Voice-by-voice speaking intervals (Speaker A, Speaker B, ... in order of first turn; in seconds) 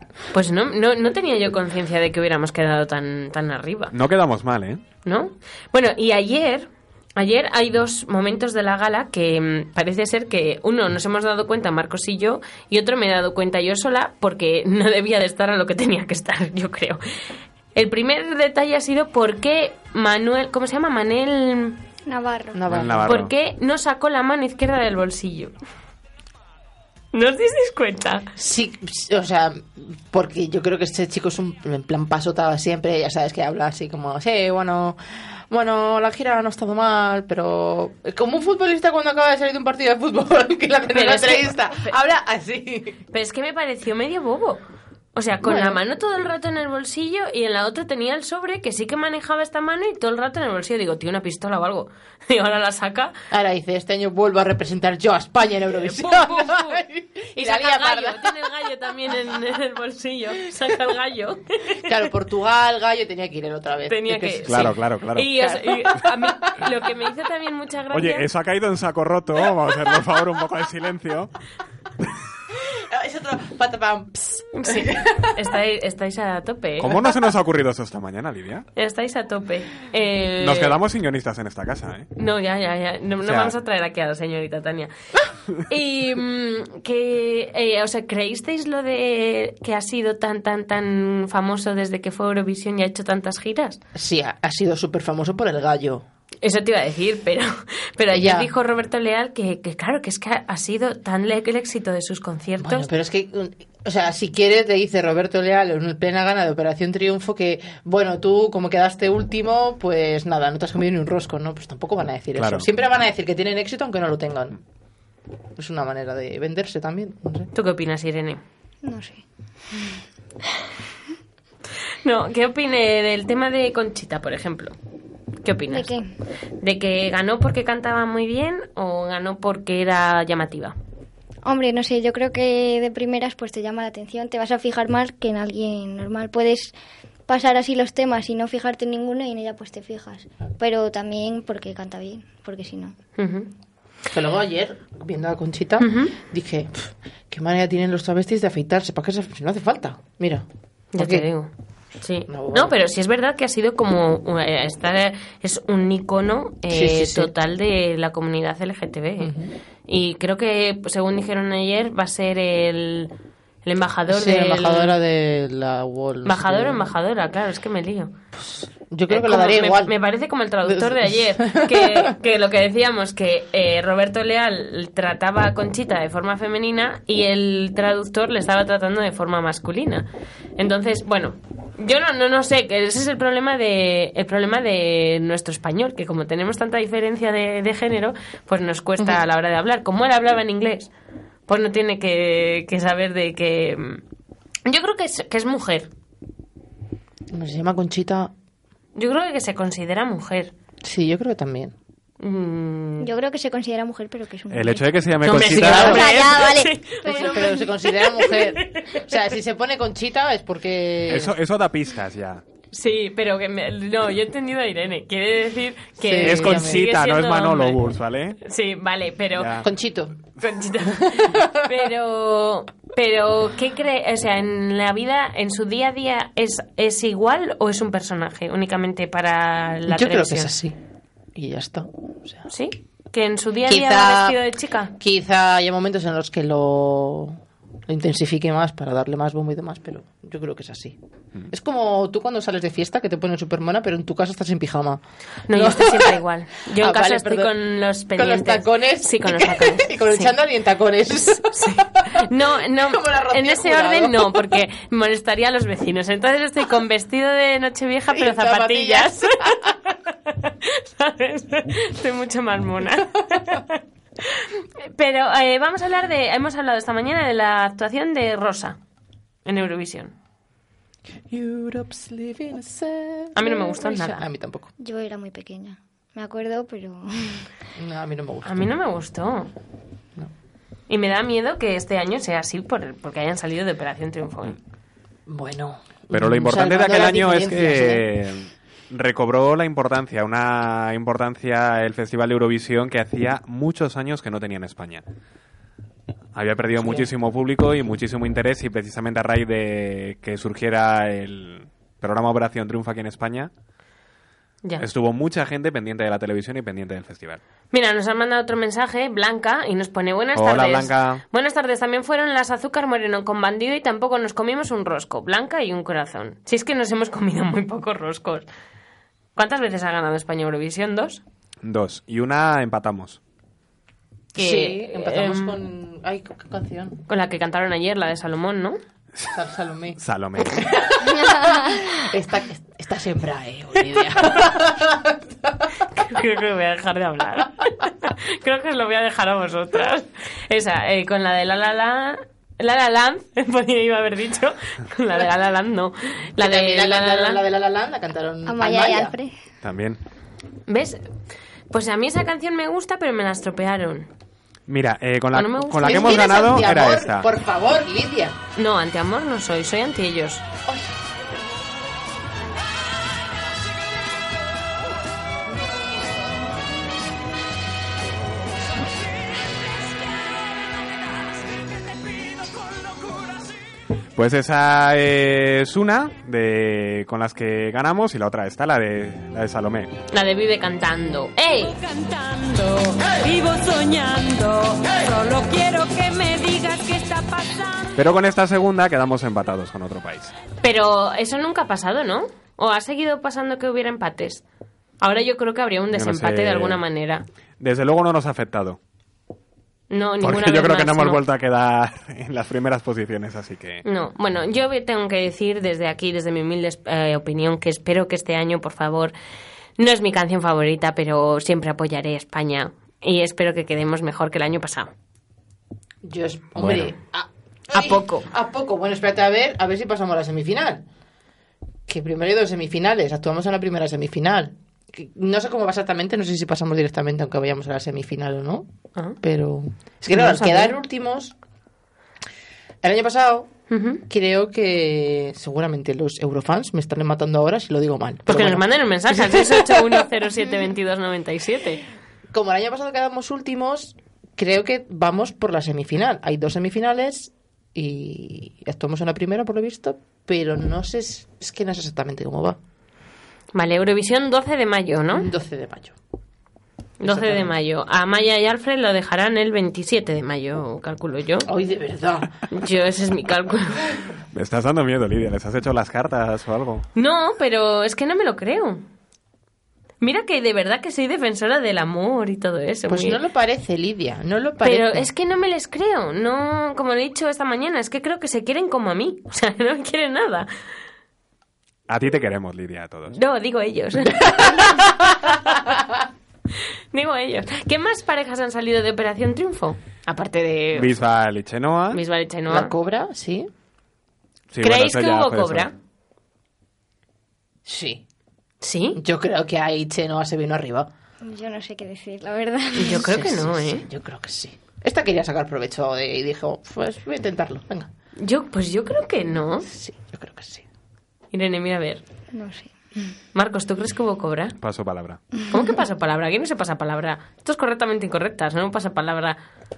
Speaker A: 0.3-3.9, 5.0-17.0, 17.8-21.8, 23.1-25.5, 27.1-28.3, 40.9-41.9, 43.1-44.6, 45.1-53.1, 55.8-56.8, 57.4-61.8, 63.9-68.2, 74.6-76.9, 78.8-80.8, 82.2-84.9, 85.7-93.8, 96.4-102.9, 117.5-118.4, 122.0-124.7, 125.4-125.9, 126.6-130.8, 143.2-143.5, 145.8-146.2, 150.9-151.5, 152.0-159.3, 159.9-163.1, 163.7-165.0, 166.2-168.1, 169.1-190.9, 191.5-194.0, 194.7-195.9, 199.0-200.5, 202.2-203.1, 205.2-209.1, 212.7-217.8, 218.4-219.6, 220.4-230.5, 232.5-234.9, 245.5-250.3, 251.5-268.8, 269.4-270.1, 273.3-274.2, 278.4-279.5, 280.9-284.6, 307.7-318.5, 319.4-321.2, 324.4-325.6, 327.1-328.8, 336.0-347.4, 350.7-351.0, 351.7-354.1, 355.3-356.5, 358.6-360.4, 380.1-381.8, 390.6-394.4, 395.0-397.2, 399.9-401.2, 403.9-409.1, 409.8-414.9, 417.7-418.2, 430.1-430.8, 433.7-434.0, 438.3-441.9, 453.5-455.3, 457.0-461.5, 462.5-463.9, 466.9-468.9, 470.0-473.2, 474.6-480.5, 483.1-485.6, 486.9-490.9, 491.9-492.7, 494.6-495.7, 498.6-499.0, 502.8-503.9, 508.2-509.7, 511.3-512.0, 513.3-514.5, 515.5-519.4
Speaker B: 3.9-4.8, 22.7-23.3, 64.5-65.5, 67.9-71.3, 76.8-78.7, 80.4-82.1, 83.2-83.5, 112.4-112.7, 204.5-206.1, 211.1-212.4, 216.2-218.4, 219.4-219.7, 286.1-295.0, 296.4-303.5, 304.8-307.4, 310.4-311.2, 321.6-323.2, 330.0-331.0, 349.6-350.0, 354.7-357.3, 374.1-379.9, 387.9-390.4, 395.9-396.8, 397.6-398.8, 400.2-403.8, 416.6-416.9, 464.3-466.9, 481.9-483.2, 490.8-492.0, 494.5-495.7, 514.6-515.2
Speaker C: 22.1-22.6, 118.8-120.0, 125.7-126.1, 131.4-136.7, 137.3-142.9, 203.0-204.8, 205.5-207.6, 274.8-277.5, 348.5-349.4, 501.2-503.1, 512.3-513.1
Speaker D: 22.5-23.1, 28.4-43.0, 45.4-45.8, 53.3-58.3, 61.8-64.8, 65.4-66.2, 72.7-75.3, 93.9-96.0, 98.1-98.5, 102.6-114.6, 115.6-117.5, 144.1-150.5, 151.0-151.3, 152.3-152.8, 156.7-157.3, 159.2-159.5, 164.1-166.9, 168.3-170.0, 170.6-172.1, 197.3-198.3, 200.8-201.7, 205.2-206.6, 207.1-211.3, 216.0-216.8, 219.6-220.2, 220.8-221.7, 229.9-230.8, 231.3-232.5, 233.7-234.4, 235.0-241.0, 241.5-246.2, 246.8-247.6, 248.1-254.6, 258.1-259.8, 271.3-274.7, 277.8-278.7, 285.3-288.0, 296.8-297.1, 324.3-327.0, 329.3-336.2, 346.4-349.1, 355.8-358.4, 360.7-360.9, 416.0-420.9, 421.9-428.6, 429.2-431.4, 432.8-433.5, 434.1-440.1, 442.3-452.6, 455.1-456.0, 457.0-457.5, 461.4-462.4, 472.9-475.1, 484.2-484.9, 492.5-493.5, 497.6-498.0, 499.0-500.9, 502.8-507.9, 509.6-510.6
Speaker E: 381.8-387.9